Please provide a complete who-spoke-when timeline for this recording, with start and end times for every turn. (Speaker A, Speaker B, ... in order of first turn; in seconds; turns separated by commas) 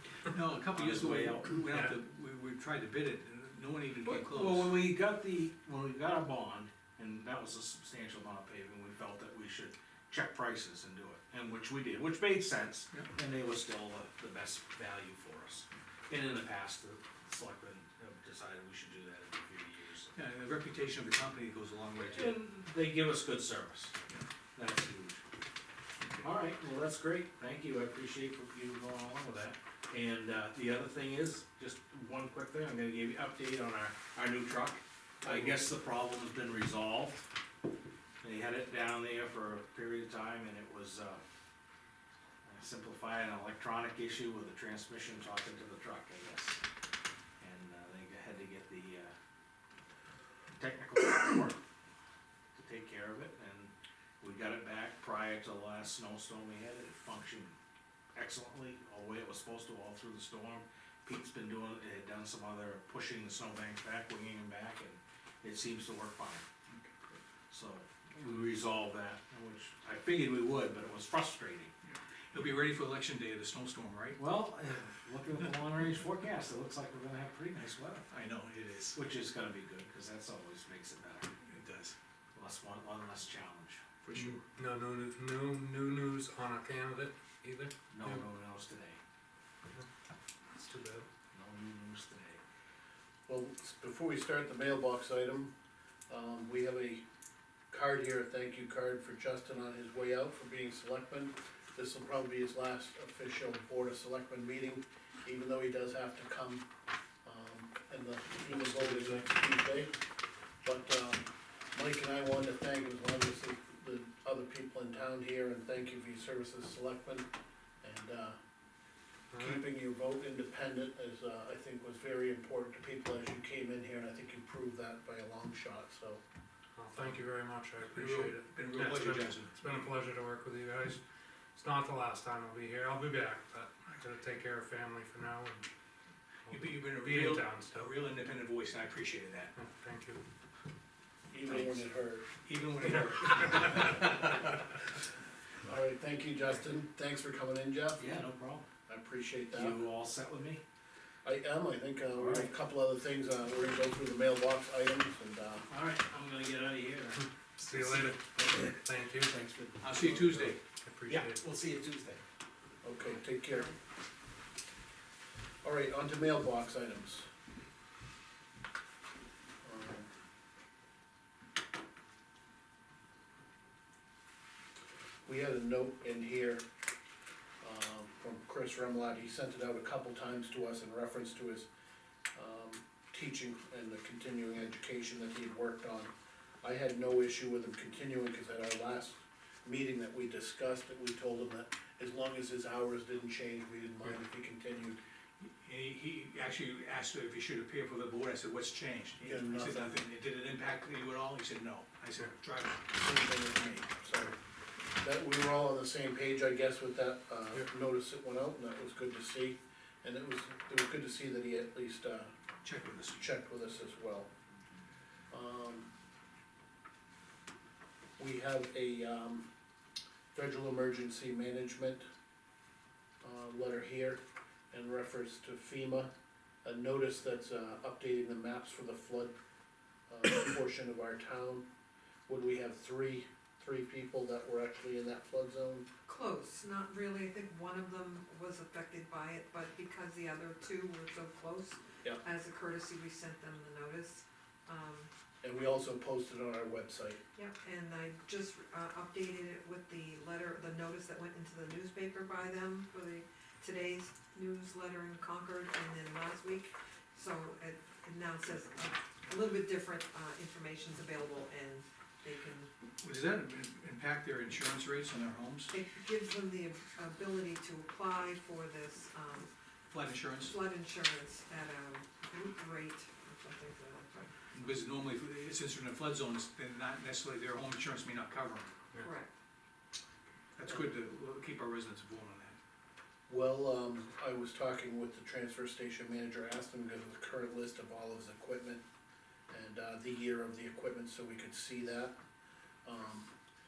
Speaker A: 0.3-4.8, Speaker B: 0.7-1.6, Speaker C: 1.7-1.9, Speaker B: 4.0-20.1, Speaker A: 20.1-22.4, Speaker B: 22.0-23.9, Speaker B: 24.5-25.2, Speaker B: 26.2-37.3, Speaker A: 35.3-35.6, Speaker B: 38.2-41.2, Speaker B: 42.4-46.6, Speaker B: 47.4-49.1, Speaker B: 50.6-51.6, Speaker B: 52.5-57.5, Speaker B: 58.1-66.4, Speaker A: 66.7-67.0, Speaker B: 67.5-71.7, Speaker A: 71.8-74.2, Speaker B: 74.2-78.1, Speaker A: 78.1-79.0, Speaker B: 78.9-81.3, Speaker A: 81.4-82.0, Speaker B: 82.3-83.8, Speaker C: 84.1-88.2, Speaker B: 87.9-89.0, Speaker C: 90.5-91.0, Speaker B: 91.3-92.4, Speaker D: 93.3-95.5, Speaker D: 96.1-97.0, Speaker D: 97.7-106.7, Speaker D: 107.2-109.9, Speaker C: 108.5-109.2, Speaker D: 110.6-117.3, Speaker D: 117.8-118.3, Speaker C: 119.3-119.6, Speaker D: 119.4-126.2, Speaker C: 126.8-131.0, Speaker A: 127.9-129.9, Speaker C: 131.5-135.7, Speaker C: 136.4-137.9, Speaker A: 136.5-139.5, Speaker C: 139.6-140.2, Speaker D: 141.3-142.3, Speaker B: 141.4-141.8, Speaker A: 142.4-144.0, Speaker B: 142.8-144.0, Speaker D: 145.6-148.0, Speaker B: 148.0-148.7, Speaker D: 148.9-149.8, Speaker B: 149.5-150.6, Speaker D: 151.2-155.7, Speaker B: 152.1-152.5, Speaker B: 155.7-160.6, Speaker C: 157.6-159.4, Speaker A: 159.8-160.6, Speaker C: 160.7-161.4, Speaker B: 161.1-162.2, Speaker D: 162.8-163.7, Speaker D: 165.6-167.3, Speaker D: 169.6-170.1, Speaker D: 175.2-176.6, Speaker D: 177.6-181.7, Speaker D: 182.3-186.1, Speaker D: 186.6-195.0, Speaker A: 195.4-202.9, Speaker D: 199.2-200.0, Speaker D: 202.9-204.3, Speaker D: 205.0-212.3, Speaker A: 212.6-213.2, Speaker D: 213.1-214.3, Speaker D: 215.3-215.9, Speaker D: 218.2-219.5, Speaker D: 220.3-222.0, Speaker D: 223.2-226.1, Speaker D: 226.6-229.3, Speaker D: 230.1-231.6, Speaker D: 232.3-235.8, Speaker E: 236.1-245.1, Speaker D: 245.4-247.2, Speaker E: 247.3-262.7, Speaker A: 263.0-265.7, Speaker E: 265.7-269.5, Speaker A: 269.9-270.5, Speaker E: 270.4-274.3, Speaker A: 274.5-278.7, Speaker E: 279.0-279.3, Speaker A: 280.6-282.6, Speaker D: 283.3-288.8, Speaker D: 289.5-292.2, Speaker D: 292.8-293.3